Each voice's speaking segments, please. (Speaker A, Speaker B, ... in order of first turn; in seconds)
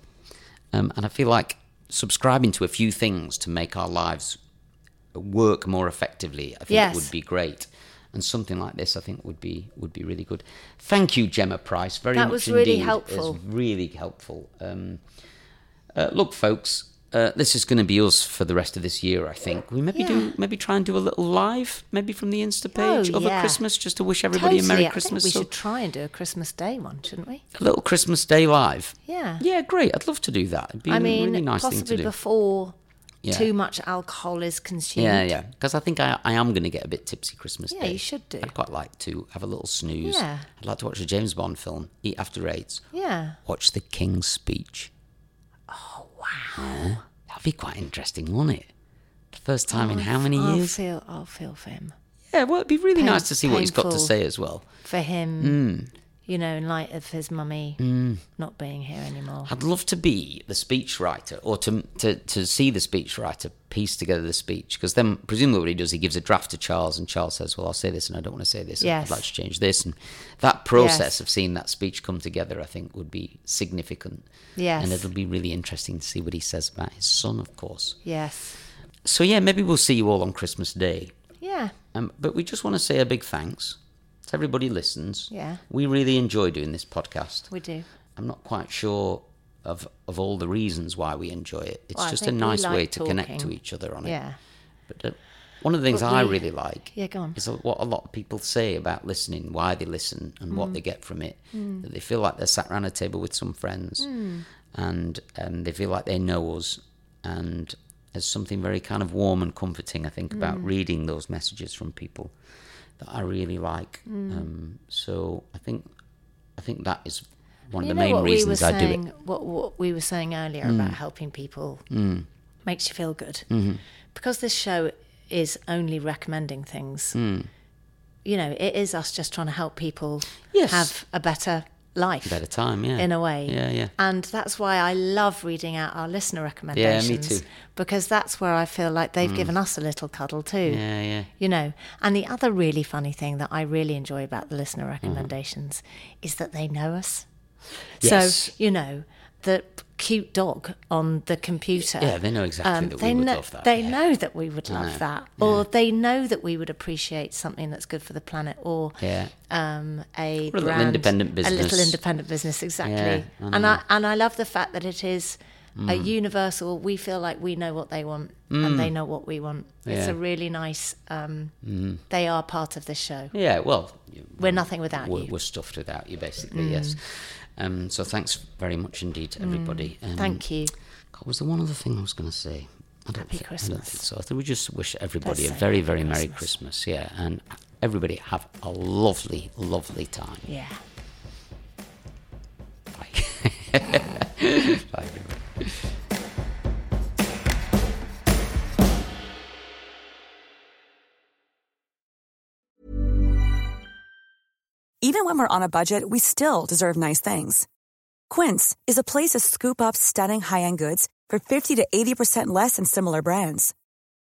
Speaker A: 0.7-4.4, 5.1-15.0, 15.9-25.5, 27.6-32.1, 33.2-33.5, 35.0-42.9, 43.5-44.9, 46.6-48.7, 49.3-50.8, 52.3-54.7, 55.4-55.9, 57.8-58.2, 59.5-74.3, 74.8-78.0, 79.0-81.1, 81.9-87.5, 88.2-94.2, 94.9-104.1, 104.7-112.3, 113.0-115.9, 116.6-119.0, 120.6-121.0, 121.9-122.3, 123.5-123.8, 127.2-127.5, 130.5-130.9, 132.2-133.9, 136.7-137.5, 139.2-139.5, 140.7-141.3, 145.0-145.3, 148.0-148.5, 151.8-154.0, 154.7-155.7, 159.0-159.3, 160.5-162.0, 162.8-163.8, 165.8-166.1, 168.5-168.9, 169.9-170.2, 171.6-172.0, 173.3-180.4, 181.1-190.5, 192.9-195.8
Speaker B: 6.7-7.1, 12.1-13.4, 19.9-20.3, 22.7-23.6, 24.3-27.4, 29.1-29.4, 30.9-32.8, 33.3-35.3, 37.7-38.5, 40.0-40.5, 42.9-43.4, 45.7-46.8, 49.7-51.9, 53.0-54.1, 54.8-55.6, 56.3-59.5, 68.8-69.2, 70.8-71.1, 74.6-75.1, 78.0-78.6, 81.4-81.7, 85.3-85.6, 87.5-87.9, 92.0-94.4, 95.9-97.4, 100.5-100.8, 101.5-101.8, 104.0-104.4, 110.3-110.7, 114.1-114.5, 117.8-121.8, 122.7-123.5, 124.1-127.2, 128.2-132.4, 133.0-140.8, 141.4-147.3, 148.0-171.5, 172.1-173.3, 174.4-175.3, 176.5-177.0, 179.4-180.7, 183.2-184.0, 185.2-186.5, 190.5-190.8
Speaker C: 205.0-207.7, 208.3-213.7